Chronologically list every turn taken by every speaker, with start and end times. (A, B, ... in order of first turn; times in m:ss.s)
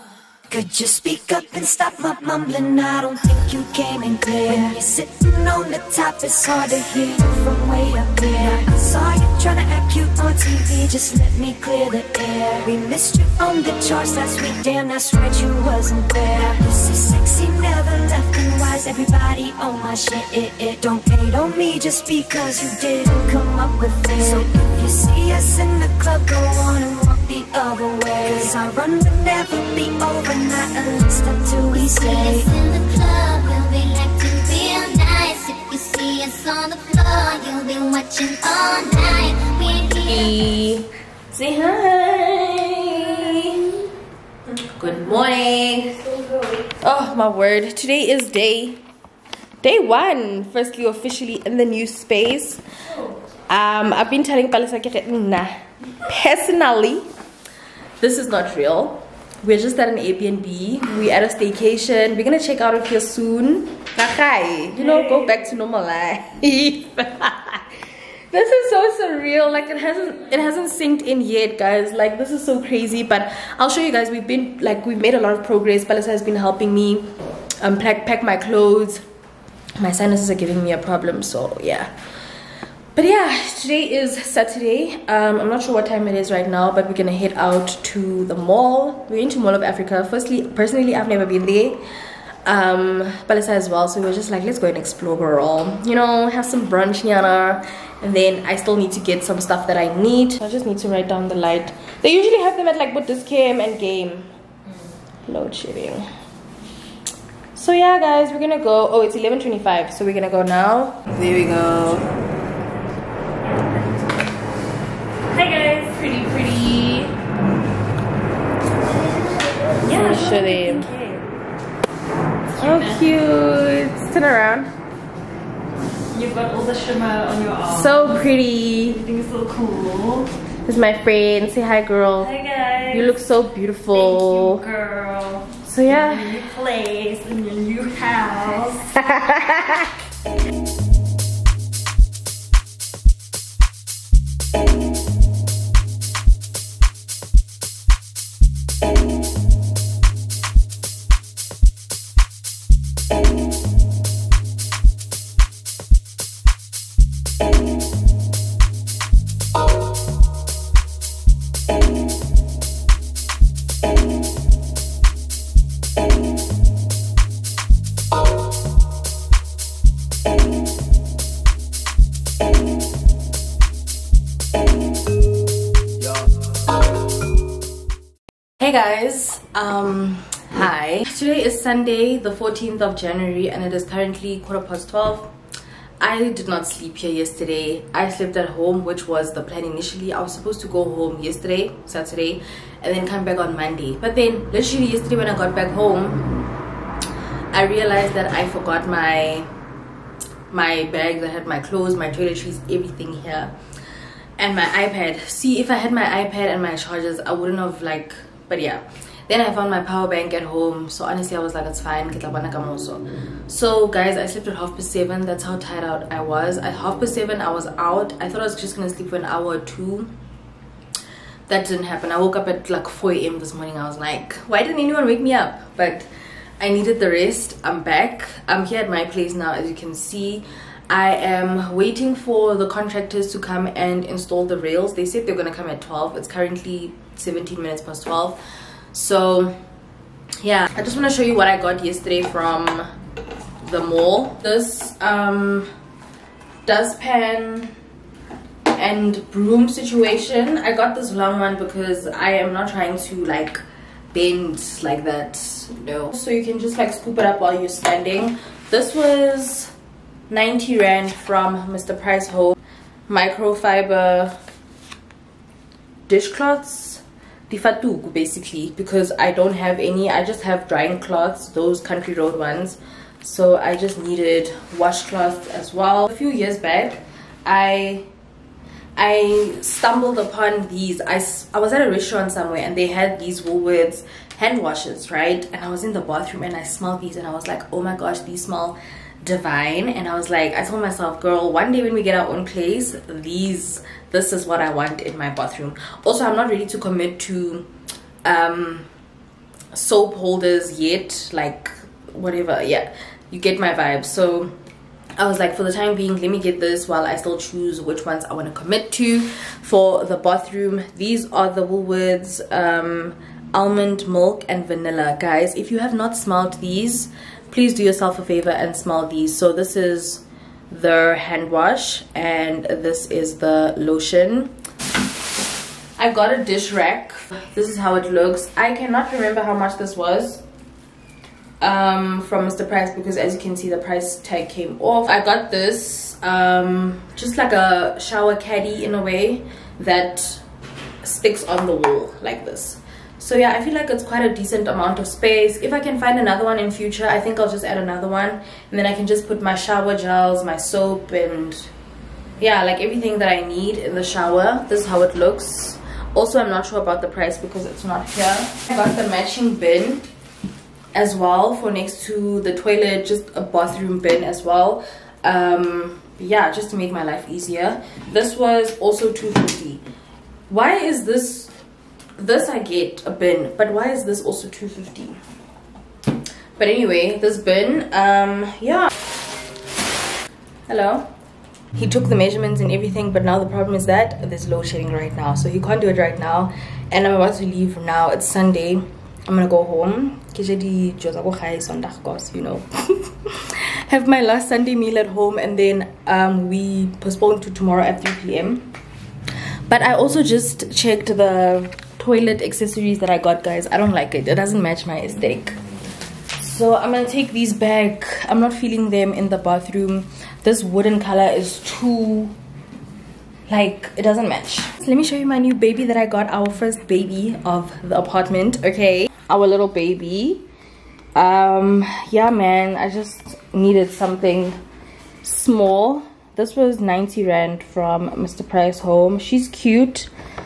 0:00.5-0:32.5 A
0:31.7-0:40.4 B
0:40.0-0:43.7 C
0:44.7-0:46.0 C
0:46.1-0:46.7 D
0:46.8-0:48.8 C
0:49.6-0:52.6 C
0:53.5-0:57.1 C
0:58.0-1:07.6 C
1:04.8-1:05.2 D
1:08.3-1:17.1 C
1:17.6-1:19.0 C
1:19.8-1:21.9 C
1:23.0-1:31.8 C
1:32.4-1:44.3 C
1:45.3-1:46.1 C
1:47.6-1:52.1 C
1:55.3-1:57.2 C
1:59.7-2:01.2 D
1:59.8-2:00.9 C
2:02.5-2:03.1 D
2:02.6-2:04.7 C
2:06.1-2:08.2 D
2:07.7-2:09.0 C
2:09.0-2:10.3 D
2:10.7-2:12.3 C
2:12.2-2:13.2 D
2:12.9-2:14.6 C
2:13.9-2:19.0 D
2:15.7-2:16.3 C
2:58.6-3:05.3 C
3:06.0-3:16.2 C
3:17.5-3:19.5 C
3:20.5-3:23.5 C
3:24.4-3:40.1 C
3:41.5-3:46.1 C
3:46.6-3:58.4 C
3:58.9-3:59.6 C
4:00.4-4:02.9 C
4:03.6-4:05.7 C
4:06.7-4:07.7 C
4:08.7-4:19.7 C
4:20.3-4:22.6 C
4:23.1-4:24.4 C
4:26.1-4:38.0 C
4:39.0-4:57.7 C
4:58.2-4:58.9 C
4:59.7-5:04.6 C
5:05.2-5:24.5 C
5:26.0-5:30.4 C
5:31.6-5:40.4 C
5:41.0-5:51.7 C
5:52.4-6:00.1 C
6:00.9-6:09.8 C
6:10.5-6:11.5 C
6:12.2-6:15.2 C
6:16.6-6:18.9 C
6:20.7-6:21.1 C
6:21.8-6:38.7 C
6:39.7-6:45.6 C
6:46.4-6:52.4 C
6:53.5-7:00.4 C
7:01.2-7:04.6 C
7:05.2-7:10.1 C